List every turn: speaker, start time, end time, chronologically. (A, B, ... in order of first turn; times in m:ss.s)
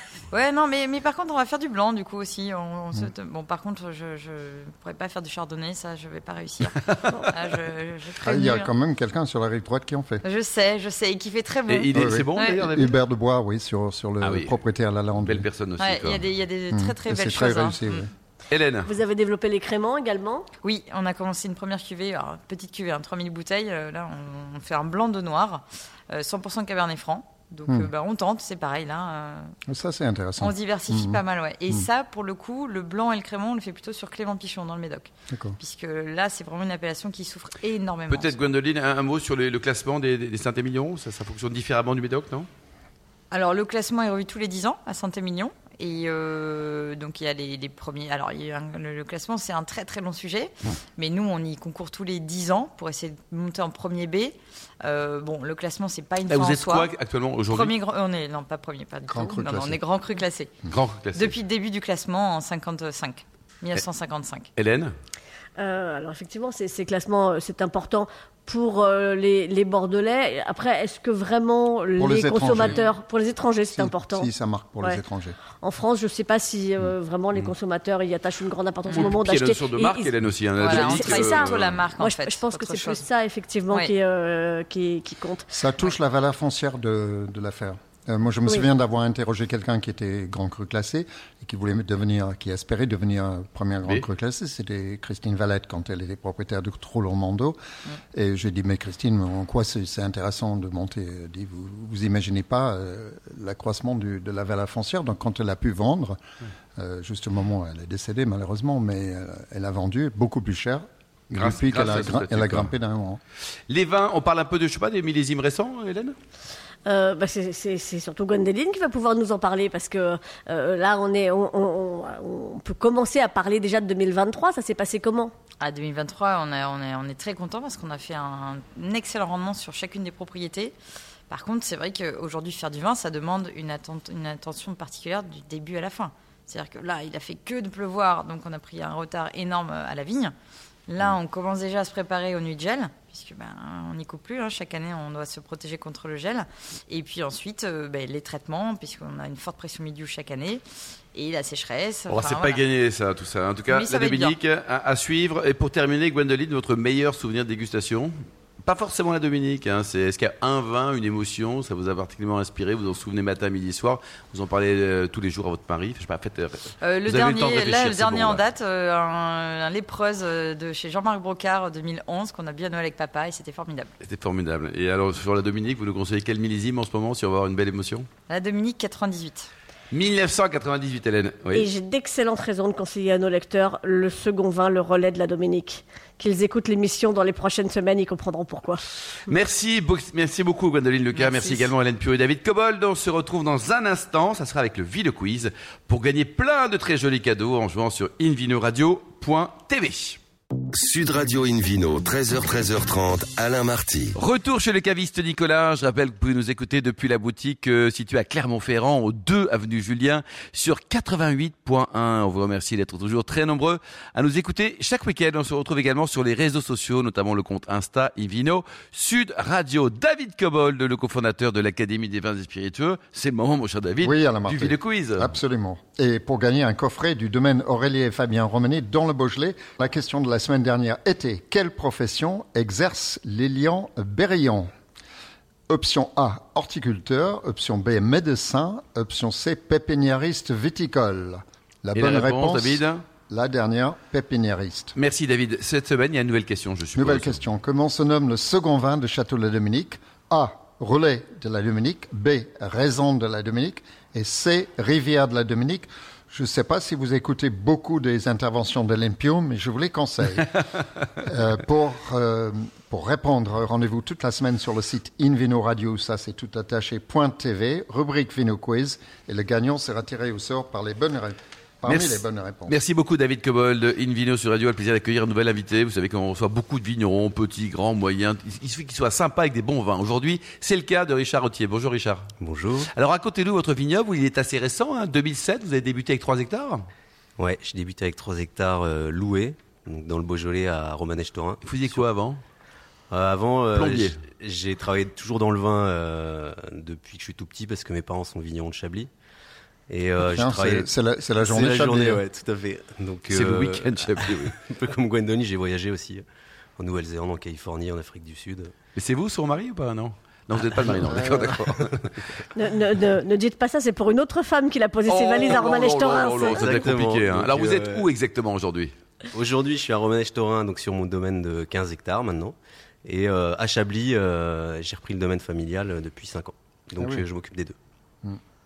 0:00.3-0:06.8 A
0:06.8-0:07.2 B
0:07.3-0:08.7 A
0:08.2-0:10.2 C
0:10.2-0:12.7 A
0:11.7-0:13.0 B
0:11.9-0:15.5 C
0:14.2-0:14.6 B
0:15.2-0:16.2 B
0:15.8-0:18.1 A
0:16.7-0:18.1 C
0:18.5-0:18.9 B
0:18.8-0:20.5 D
0:20.6-0:29.5 A
0:29.7-0:31.8 C
0:30.4-0:38.4 A
0:35.3-0:35.6 C
0:38.1-0:42.5 B
0:43.3-0:56.9 A
0:56.3-0:57.7 B
0:57.4-1:00.6 A
0:59.1-0:59.8 C
1:00.7-1:01.4 B
1:01.1-1:04.5 A
1:04.6-1:04.9 B
1:05.6-1:14.3 D
1:12.0-1:12.8 C
1:13.7-1:15.4 C
1:15.6-1:20.1 D
1:18.9-1:19.1 A
1:18.9-1:21.9 B
1:20.6-1:23.0 A
1:20.6-1:25.5 D
1:23.7-1:23.9 A
1:25.5-1:37.6 C
1:38.1-1:46.2 C
1:46.8-1:53.2 C
1:51.3-1:52.7 B
1:53.7-1:56.2 B
1:56.9-2:05.3 D
2:05.6-2:10.8 A
2:11.3-2:20.3 A
2:20.9-2:30.6 A
2:31.1-2:32.6 A
2:32.1-2:48.4 B
2:33.7-2:34.4 A
2:46.8-2:53.9 A
2:54.0-2:58.1 B
2:58.3-2:59.5 A
2:59.9-3:01.7 B
3:01.5-3:08.8 D
3:09.3-3:20.2 B
3:11.2-3:11.7 A
3:20.7-3:24.2 E
3:24.2-3:45.3 B
3:44.0-3:54.7 C
3:55.7-4:05.0 C
4:02.0-4:03.0 B
4:05.0-4:07.4 B
4:07.0-4:20.5 C
4:21.2-4:32.7 C
4:31.8-4:42.3 B
4:42.4-4:42.9 F
4:42.9-4:46.8 B
4:47.4-4:52.0 F
4:51.6-4:52.4 B
4:53.1-4:59.1 F
4:53.8-4:54.2 B
4:59.9-5:06.2 F
5:00.2-5:02.2 C
5:03.3-5:04.5 B
5:06.8-5:08.7 F
5:09.0-5:12.0 B
5:10.6-5:12.1 F
5:12.6-5:16.8 D
5:15.1-5:18.9 B
5:16.1-5:18.1 F
5:19.3-5:27.8 F